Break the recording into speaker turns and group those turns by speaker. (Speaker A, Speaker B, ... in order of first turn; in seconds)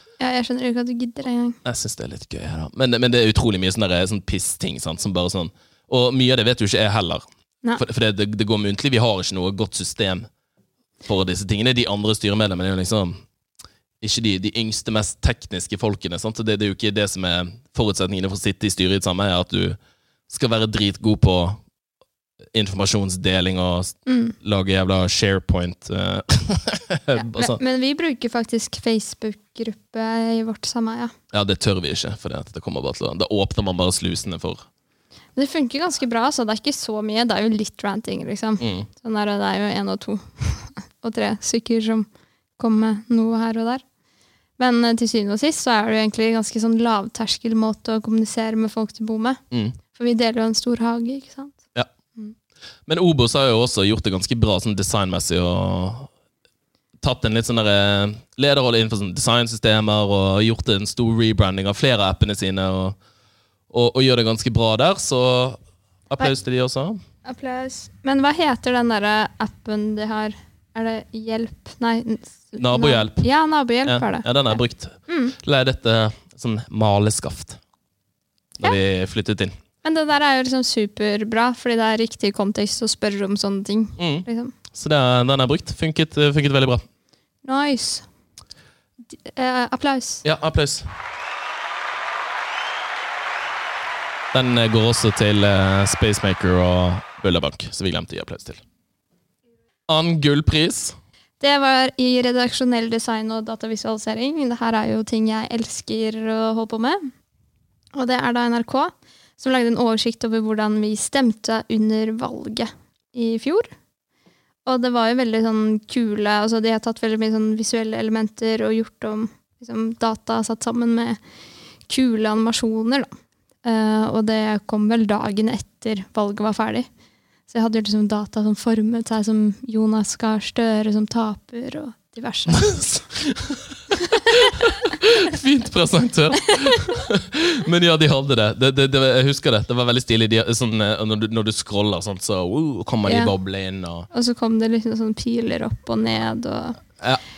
Speaker A: 0.2-1.6, 24.1-24.4, 27.1-31.1, 35.4-43.8, 44.6-51.6, 67.2-74.6, 75.1-75.3, 79.8-84.5, 87.4-88.1, 89.2-90.2, 101.4-107.1, 107.9-113.7, 114.7-121.2, 121.9-123.1, 123.6-126.9, 127.5-132.7, 143.1-143.3, 144.1-146.8
Speaker B: 1.6-7.2, 7.8-10.3, 11.1-13.2, 14.0-19.8, 20.3-21.6, 22.5-27.6, 31.3-34.7, 38.6-38.9, 49.5-49.8, 52.9-56.1, 57.0-63.0, 63.7-67.0, 72.6-73.3, 73.8-77.6, 78.6-79.5, 84.0-86.8, 90.2-90.9, 94.3-98.6, 99.9-101.0, 132.5-144.1